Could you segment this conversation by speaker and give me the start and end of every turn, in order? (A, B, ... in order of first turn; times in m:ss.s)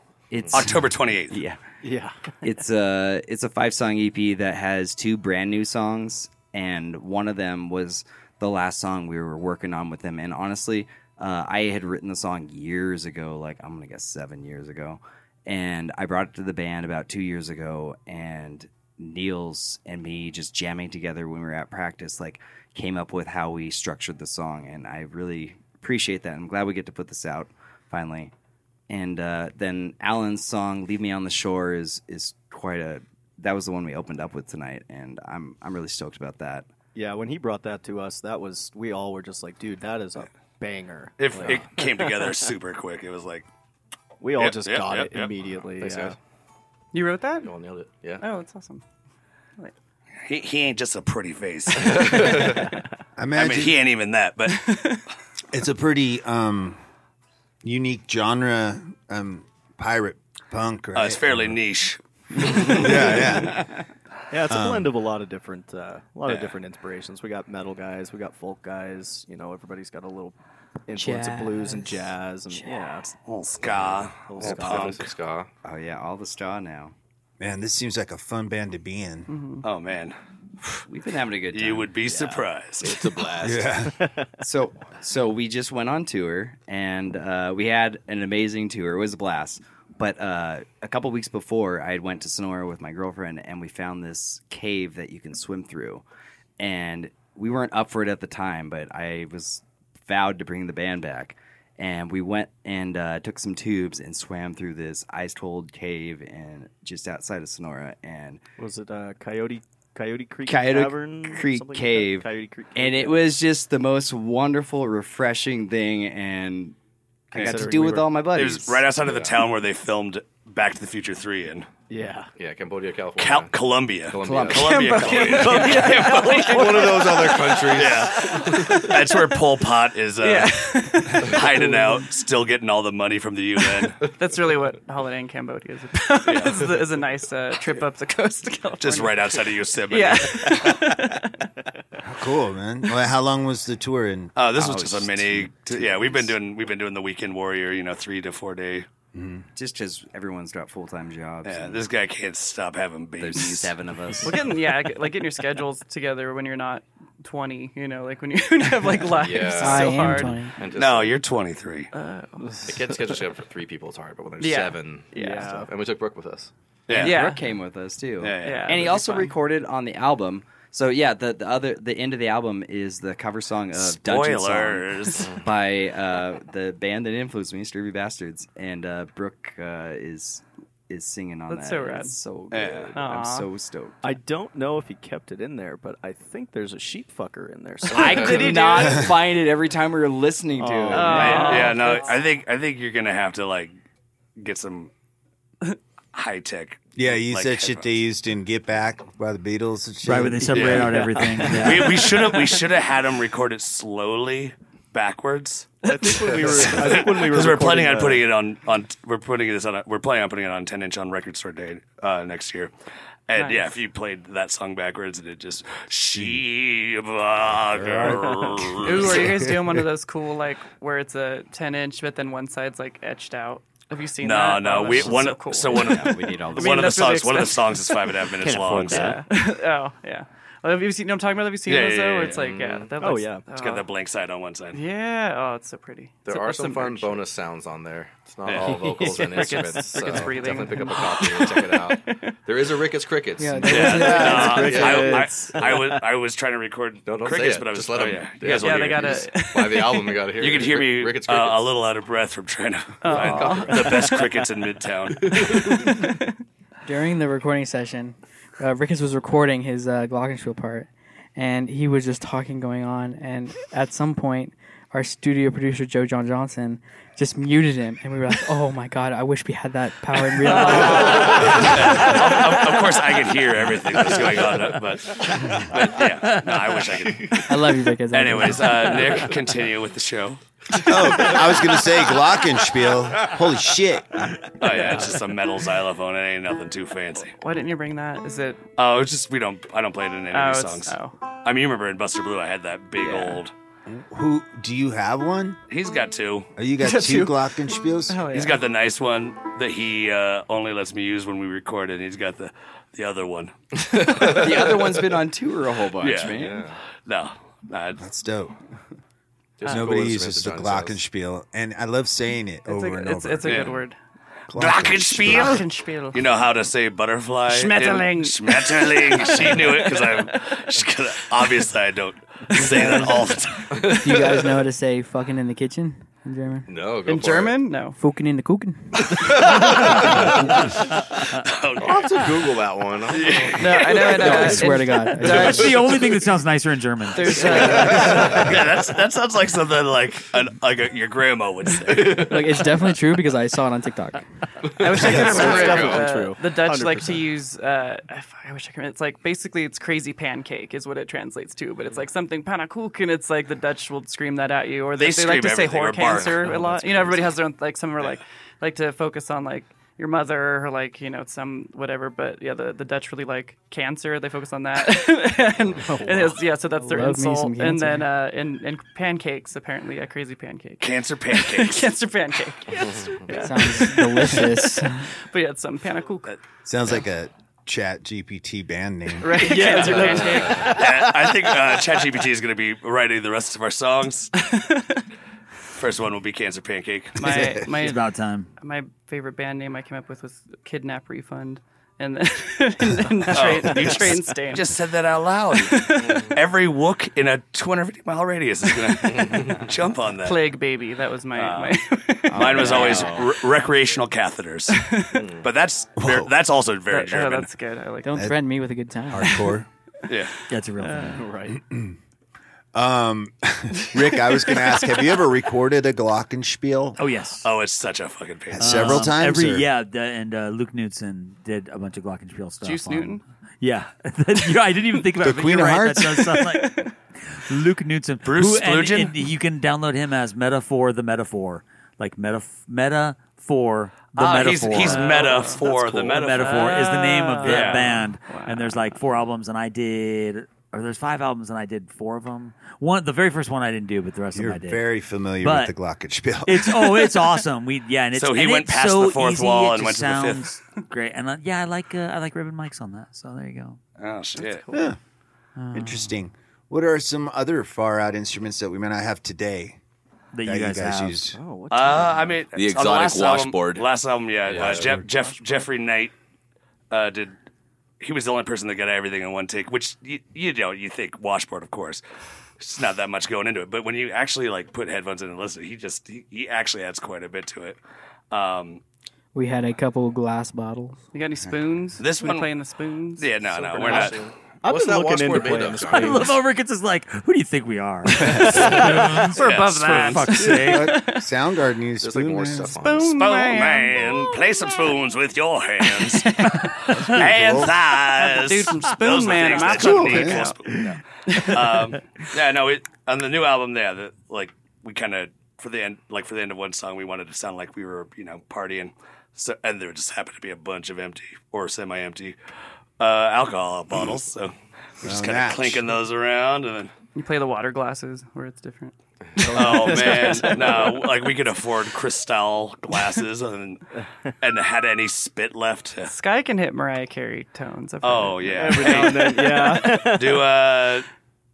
0:00.3-0:01.6 A
0:00.5-0:01.4 B
0:01.8-0:02.2 C
0:02.4-0:28.3 A
0:28.9-0:36.7 A
0:37.0-0:42.2 C
0:41.2-0:43.5 B
0:44.2-0:46.2 C
0:44.4-0:45.3 B
0:45.8-0:46.2 D
0:46.9-0:47.5 E
0:47.4-0:48.2 D
0:48.2-0:48.8 E
0:50.2-0:52.6 B
0:52.0-0:52.4 D
0:53.2-0:53.8 F
0:53.4-0:54.7 B
0:54.5-0:55.0 E
0:55.5-0:56.8 F
0:57.6-1:01.6 F
1:00.9-1:03.4 B
1:02.4-1:03.7 F
1:04.3-1:10.4 C
1:04.5-1:04.9 F
1:10.9-1:13.1 C
1:11.0-1:12.9 G
1:13.3-1:15.1 B
1:14.2-1:15.0 C
1:14.4-1:15.5 D
1:15.6-1:16.9 A
1:17.4-1:19.3 F
1:19.3-1:19.6 E
1:19.6-1:20.2 B
1:20.9-1:22.4 A
1:21.5-1:23.1 B
1:22.8-1:23.9 D
1:23.4-1:24.0 F
1:23.9-1:24.3 C
1:24.4-1:36.0 A
1:36.6-1:48.4 A
1:48.6-1:53.3 C
1:50.4-1:56.8 A
1:57.3-1:58.3 C
1:57.3-1:58.9 A
1:57.4-1:57.7 B
1:58.3-2:01.7 B
1:59.0-1:59.4 D
2:01.9-2:02.3 C
2:02.4-2:03.6 D
2:03.2-2:07.0 B
2:04.1-2:05.8 D
2:04.2-2:04.6 A
2:04.5-2:07.8 E
2:05.4-2:07.7 C
2:06.4-2:08.8 D
2:07.7-2:14.0 B
2:08.3-2:08.9 E
2:10.2-2:12.0 E
2:14.0-2:21.5 E
2:16.3-2:16.7 B
2:18.8-2:20.8 B
2:22.0-2:24.4 F
2:24.4-2:28.9 B
2:24.6-2:26.3 A
2:29.1-2:29.4 F
2:29.6-2:31.9 A
2:31.4-2:33.7 B
2:33.2-2:34.6 A
2:34.2-2:40.5 E
2:39.1-2:41.2 D
2:39.6-2:40.6 G
2:40.7-2:41.9 B
2:41.9-2:42.6 E
2:42.4-2:43.0 C
2:42.7-2:46.5 D
2:44.4-2:45.6 E
2:45.1-2:45.7 C
2:46.9-2:47.2 B
2:46.9-3:04.1 A
2:47.0-2:47.4 E
2:48.2-2:48.9 B
2:48.4-2:49.3 E
2:53.8-2:55.3 B
3:01.5-3:02.1 E
3:02.5-3:02.9 B
3:03.0-3:03.5 E
3:04.0-3:09.1 C
3:07.9-3:12.0 A
3:08.0-3:09.0 E
3:10.6-3:11.9 C
3:10.9-3:12.2 E
3:11.2-3:13.7 B
3:14.4-3:14.9 B
3:16.1-3:18.0 B
3:17.0-3:20.9 F
3:20.0-3:22.1 H
3:20.5-3:32.7 B
3:20.6-3:22.3 C
3:25.8-3:28.3 C
3:26.0-3:26.4 E
3:33.3-3:39.4 B
3:33.4-3:33.8 E
3:36.1-3:36.4 F
3:37.8-3:39.8 F
3:38.8-3:53.9 E
3:44.2-3:49.2 B
3:44.9-3:47.1 A
3:48.8-3:49.1 C
3:51.7-3:52.4 B
3:52.3-3:52.9 D
3:53.0-3:53.4 C
3:53.6-3:54.8 B
3:54.7-3:57.3 E
3:56.2-4:05.9 D
3:58.5-3:58.8 B
3:58.6-4:01.1 C
3:58.8-4:02.3 E
4:03.4-4:05.0 G
4:03.7-4:09.3 B
4:03.8-4:06.0 C
4:07.0-4:11.7 D
4:08.5-4:10.2 E
4:10.4-4:15.5 B
4:13.0-4:14.1 E
4:13.1-4:14.3 C
4:13.2-4:13.8 D
4:15.3-4:16.3 E
4:16.8-4:32.1 G
4:30.5-4:41.0 B
4:37.4-4:39.2 G
4:40.9-4:44.4 F
4:44.6-4:47.3 B
4:47.4-4:48.6 E
4:48.8-4:53.5 B
4:50.3-4:51.2 E
4:53.0-4:53.4 E
4:53.9-4:55.6 F
4:55.7-4:56.5 B
4:56.6-4:58.3 F
4:56.8-4:57.5 E
4:58.1-4:58.6 E
4:58.3-5:04.5 B
5:03.9-5:04.4 D
5:04.2-5:06.7 A
5:06.0-5:06.4 B
5:06.4-5:06.8 D
5:07.0-5:08.0 B
5:08.0-5:08.6 F
5:09.6-5:11.0 D
5:09.6-5:09.9 E
5:09.6-5:13.7 F
5:12.7-5:14.0 E
5:13.4-5:13.8 B
5:14.5-5:15.6 F
5:14.5-5:24.2 B
5:15.3-5:16.2 E
5:17.5-5:20.3 E
5:22.6-5:23.1 E
5:22.6-5:23.1 G
5:23.8-5:26.7 G
5:26.7-5:27.6 D
5:27.1-5:28.0 E
5:28.0-5:29.9 G
5:29.6-5:30.1 B
5:29.9-5:30.3 D
5:31.4-5:32.1 B
5:31.8-5:33.6 D
5:33.1-5:34.5 B
5:33.6-5:35.8 E
5:34.1-5:35.9 G
5:35.2-5:38.6 H
5:37.1-5:38.5 E
5:37.5-5:38.2 C
5:37.8-5:42.5 B
5:42.0-5:44.2 G
5:42.0-5:42.3 D
5:44.8-5:46.1 D
5:44.8-6:16.3 E
5:44.8-5:47.3 C
5:55.0-5:56.5 B
5:56.2-5:57.4 C
6:05.7-6:06.4 C
6:06.8-6:08.1 G
6:10.8-6:11.9 B
6:12.8-6:13.2 D
6:13.3-6:15.1 G
6:16.6-6:19.9 F
6:19.2-6:20.8 E
6:19.2-6:21.3 C
6:20.6-6:24.3 B
6:24.4-6:25.0 E
6:25.8-6:27.2 B
6:27.2-6:28.0 E
6:27.3-6:28.5 H
6:28.6-6:34.8 E
6:33.3-6:40.5 B
6:35.6-6:36.3 E
6:39.0-6:39.4 E
6:39.1-6:39.6 D
6:40.2-6:43.1 E
6:41.4-6:41.8 B
6:42.3-6:44.9 B
6:42.5-6:43.3 D
6:44.7-6:45.2 E
6:45.2-6:45.5 D
6:45.4-6:47.5 B
6:46.0-6:46.3 F
6:46.9-6:48.3 E
6:48.0-6:49.5 G
6:49.1-6:49.7 F
6:50.1-6:50.4 B
6:50.5-6:51.3 H
6:50.8-6:51.2 E
6:51.2-6:51.6 C
6:51.7-6:51.9 F
6:52.7-6:57.0 F
6:54.5-6:54.8 E
6:57.0-6:57.5 H
6:57.4-6:59.1 B
6:58.5-6:59.7 F
6:58.6-7:24.8 H
7:02.6-7:03.2 E
7:05.2-7:06.3 F
7:06.4-7:06.9 E
7:08.2-7:09.2 B
7:14.2-7:16.7 B
7:14.7-7:19.0 E
7:17.4-7:18.0 B
7:24.3-7:27.0 F
7:25.4-7:25.8 H
7:26.4-7:33.8 H
7:28.2-7:30.5 B
7:34.0-7:34.6 B
7:34.4-7:34.9 E
7:34.7-7:35.0 F
7:35.6-7:36.1 H
7:35.7-7:39.8 F
7:40.3-7:41.2 H
7:40.5-7:41.4 F
7:41.3-7:42.5 C
7:41.7-7:46.1 B
7:42.5-7:43.9 D
7:44.5-7:45.0 D
7:44.6-7:45.0 F
7:46.9-7:47.4 B
7:48.0-7:52.0 B
7:52.6-7:57.8 B
7:58.3-7:58.8 B
7:59.4-8:01.0 G
8:01.1-8:04.2 E
8:02.0-8:02.5 B
8:03.2-8:04.2 B
8:03.8-8:06.3 D
8:03.9-8:06.4 C
8:05.9-8:11.0 H
8:09.3-8:11.2 E
8:09.3-8:10.3 B
8:10.5-8:12.8 F
8:12.0-8:13.2 D
8:12.8-8:14.2 E
8:13.0-8:32.4 B
8:15.9-8:16.7 E
8:16.9-8:17.7 F
8:18.2-8:20.6 E
8:19.6-8:20.6 F
8:21.3-8:21.8 E
8:33.0-8:36.9 B
8:35.0-8:35.8 F
8:37.2-8:39.0 E
8:39.4-8:41.0 C
8:39.5-8:40.8 E
8:39.5-8:43.8 B
8:44.4-8:46.1 B
8:46.0-8:49.3 E
8:48.0-8:51.1 B
8:48.5-8:50.5 C